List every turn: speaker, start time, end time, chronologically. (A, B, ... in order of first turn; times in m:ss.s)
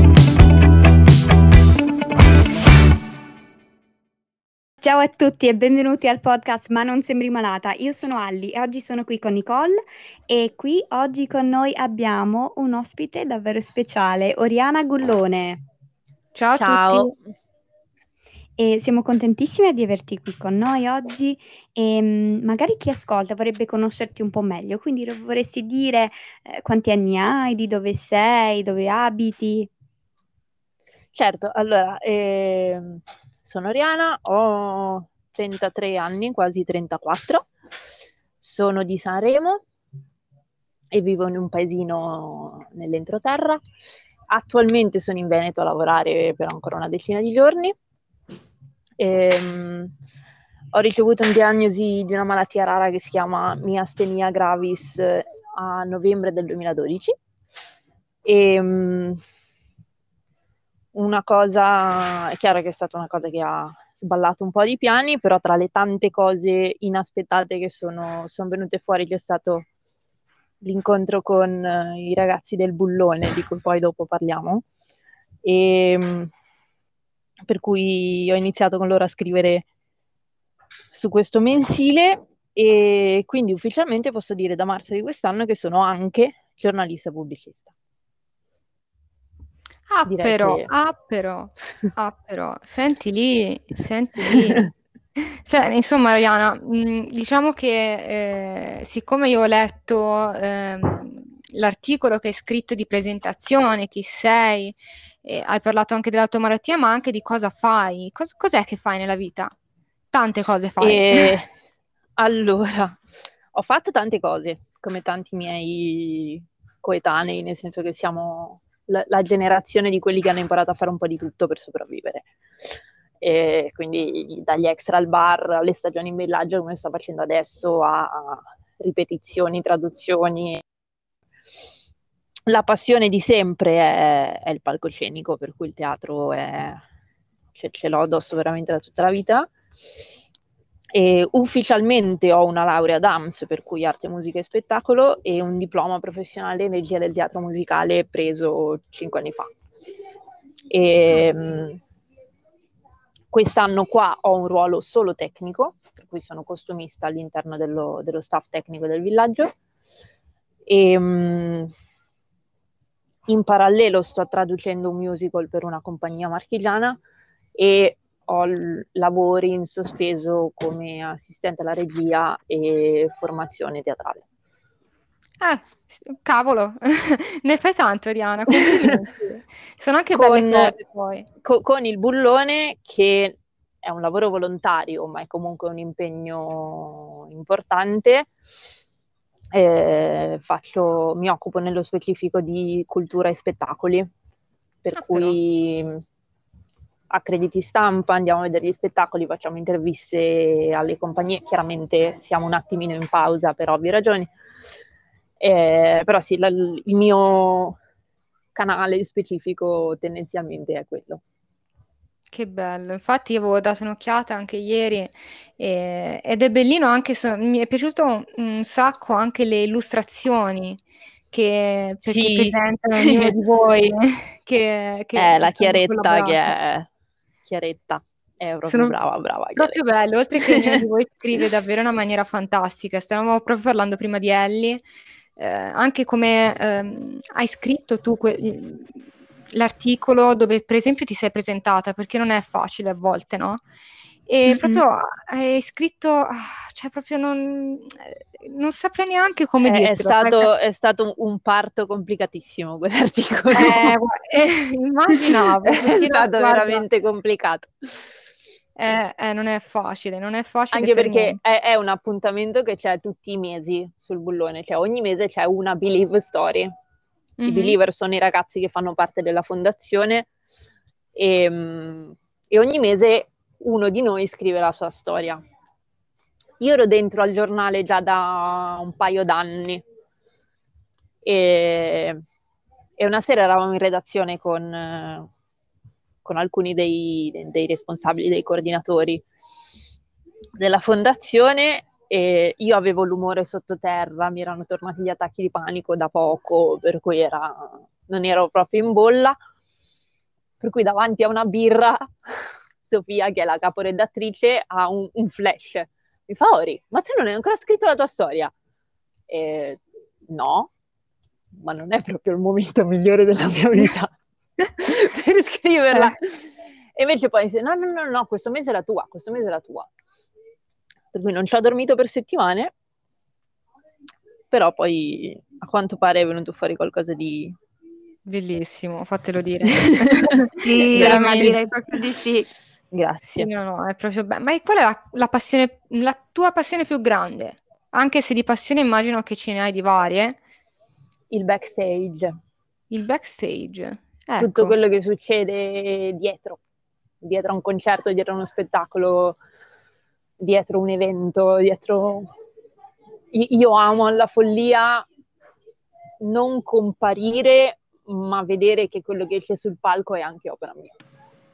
0:04.8-0:15.6 A
0:16.3-0:17.1 B
0:16.6-0:17.1 C
0:18.6-0:29.7 A
0:31.1-0:37.4 C
0:38.4-0:39.6 C
0:40.9-0:43.6 C
0:44.3-0:47.7 C
0:49.0-0:49.9 C
0:50.7-0:57.1 C
0:58.2-0:59.2 C
1:00.9-1:09.6 C
1:10.6-1:14.6 C
1:15.4-1:16.3 C
1:17.4-1:19.6 C
1:20.9-1:27.7 C
1:29.9-1:34.6 B
1:30.0-1:30.7 C
1:34.2-1:34.7 C
1:35.2-1:49.5 B
1:50.1-1:51.3 B
1:50.8-1:51.5 C
1:52.2-1:53.0 C
1:53.5-2:02.3 C
2:03.2-2:10.6 C
2:12.5-2:16.8 C
2:17.5-2:19.5 C
2:20.9-2:29.5 C
2:30.7-2:31.8 C
2:33.3-2:39.5 C
2:40.6-2:41.7 C
2:43.3-2:47.0 C
2:47.5-2:54.2 C
2:55.4-3:01.2 B
2:58.5-2:59.0 C
3:00.1-3:00.7 C
3:01.4-3:08.3 C
3:09.5-3:14.1 C
3:14.8-3:16.0 C
3:15.0-3:15.4 B
3:17.1-3:24.3 C
3:25.4-3:27.8 C
3:28.5-3:31.2 C
3:32.3-3:46.5 B
3:42.0-3:43.3 C
3:45.2-3:46.9 C
3:47.4-3:49.8 C
3:48.7-3:48.9 B
3:49.6-3:54.8 B
3:50.4-3:50.8 C
3:55.4-3:58.9 B
3:59.5-4:03.6 B
4:04.3-4:10.5 B
4:04.5-4:04.8 C
4:09.6-4:14.0 C
4:13.5-4:16.8 B
4:15.3-4:18.1 C
4:18.8-4:21.4 B
4:20.7-4:26.7 C
4:27.4-4:27.8 B
4:27.5-4:30.3 C
4:31.1-4:35.4 C
4:36.6-4:39.8 C
4:41.2-4:42.2 C
4:43.0-4:45.3 C
4:46.2-4:49.2 C
4:50.6-4:59.4 C
5:00.6-5:02.1 C
5:02.8-5:08.5 C
5:09.3-5:10.7 C
5:11.5-5:14.1 C
5:14.8-5:19.9 C
5:21.1-5:22.7 C
5:24.5-5:27.6 C
5:28.2-5:31.6 B
5:29.7-5:30.4 C
5:30.6-5:32.4 A
5:30.9-5:31.6 C
5:32.9-5:33.5 C
5:33.3-5:40.4 B
5:41.3-5:42.3 C
5:42.9-5:44.7 B
5:44.4-5:46.6 C
5:47.2-5:49.4 C
5:50.4-5:52.3 C
5:53.3-5:55.0 C
5:56.2-6:00.9 C